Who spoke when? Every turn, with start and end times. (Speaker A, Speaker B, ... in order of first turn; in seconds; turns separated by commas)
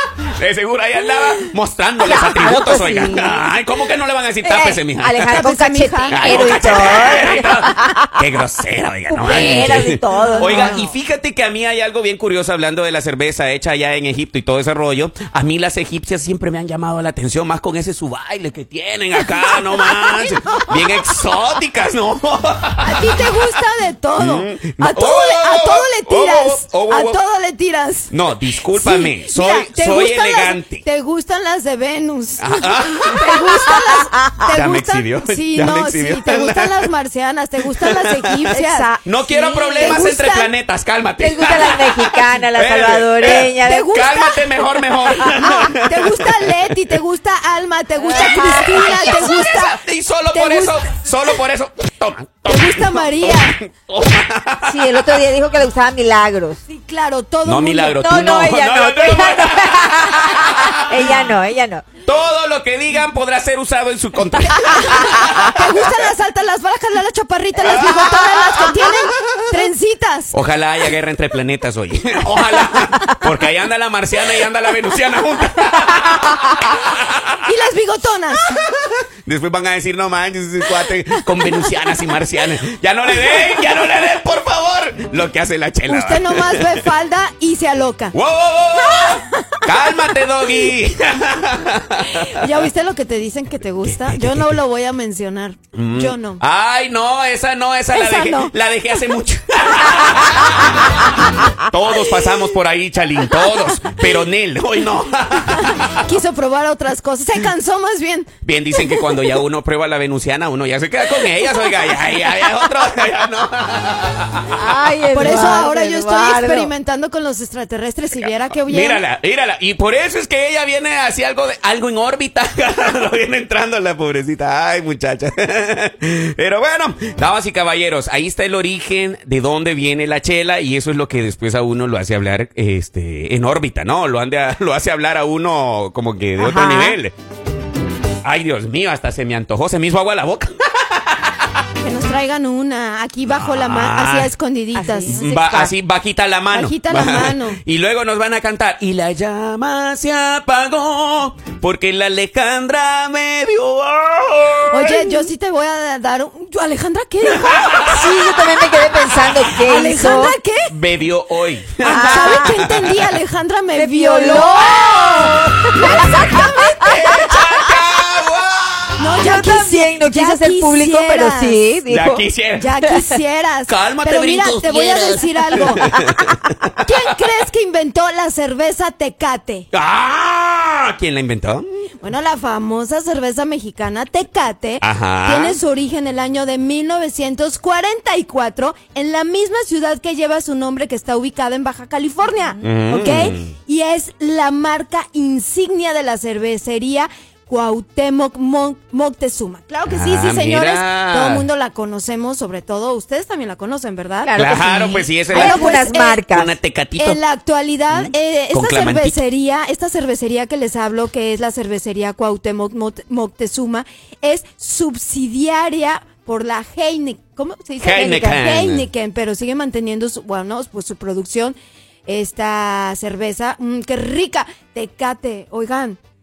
Speaker A: 0.2-5.4, Speaker B: 2.0-3.5, Speaker B: 4.4-8.2, Speaker C: 5.2-7.4, Speaker A: 6.1-23.6, Speaker B: 9.1-10.8, Speaker C: 9.4-10.9, Speaker C: 22.8-28.2, Speaker A: 24.1-27.2, Speaker A: 28.1-30.8, Speaker C: 28.8-40.5, Speaker A: 32.4-33.8, Speaker B: 33.7-34.3, Speaker A: 34.5-36.9, Speaker A: 37.6-38.5, Speaker B: 38.5-39.0, Speaker A: 39.0-46.8, Speaker B: 39.7-40.0, Speaker B: 41.2-44.0, Speaker C: 43.6-44.4, Speaker C: 45.2-49.8, Speaker B: 48.0-49.2, Speaker A: 48.1-55.1, Speaker C: 50.3-50.8, Speaker C: 52.5-53.6, Speaker B: 54.6-56.6, Speaker C: 56.7-58.0, Speaker A: 57.4-61.1, Speaker B: 58.0-61.8, Speaker A: 62.0-66.0, Speaker C: 64.5-70.3, Speaker A: 67.6-69.7, Speaker A: 70.3-77.5, Speaker C: 77.4-78.5, Speaker A: 78.5-86.9, Speaker C: 81.3-82.0, Speaker C: 83.2-83.5, Speaker C: 85.9-88.1, Speaker A: 88.1-92.7, Speaker C: 88.8-89.9, Speaker C: 92.0-96.4, Speaker A: 93.8-94.6, Speaker A: 95.7-106.0, Speaker C: 97.9-98.5, Speaker C: 105.4-108.3, Speaker A: 108.4-114.6, Speaker B: 114.5-116.7, Speaker C: 115.1-119.0, Speaker A: 118.2-137.1, Speaker B: 136.4-137.0, Speaker A: 138.2-141.6, Speaker C: 141.8-145.2, Speaker A: 143.2-144.3, Speaker B: 144.8-145.7, Speaker A: 145.1-155.3, Speaker C: 146.5-147.6, Speaker C: 154.7-158.0, Speaker A: 157.3-158.3, Speaker B: 157.8-160.3, Speaker C: 159.6-160.7, Speaker A: 160.7-163.2, Speaker B: 161.9-162.6, Speaker C: 161.9-166.8, Speaker B: 163.7-167.5, Speaker A: 165.9-169.2, Speaker C: 169.0-171.6, Speaker B: 169.2-172.2, Speaker A: 171.9-172.7, Speaker C: 172.6-175.8, Speaker B: 172.8-173.2, Speaker A: 173.7-177.4, Speaker B: 175.5-176.3, Speaker C: 176.8-179.7, Speaker A: 179.7-181.7, Speaker C: 182.0-204.3, Speaker A: 184.8-185.6, Speaker A: 192.6-193.5, Speaker A: 199.9-201.5, Speaker B: 204.2-206.5, Speaker A: 204.3-207.2, Speaker C: 205.3-206.2, Speaker C: 207.0-226.0, Speaker A: 207.9-209.2, Speaker A: 217.8-218.9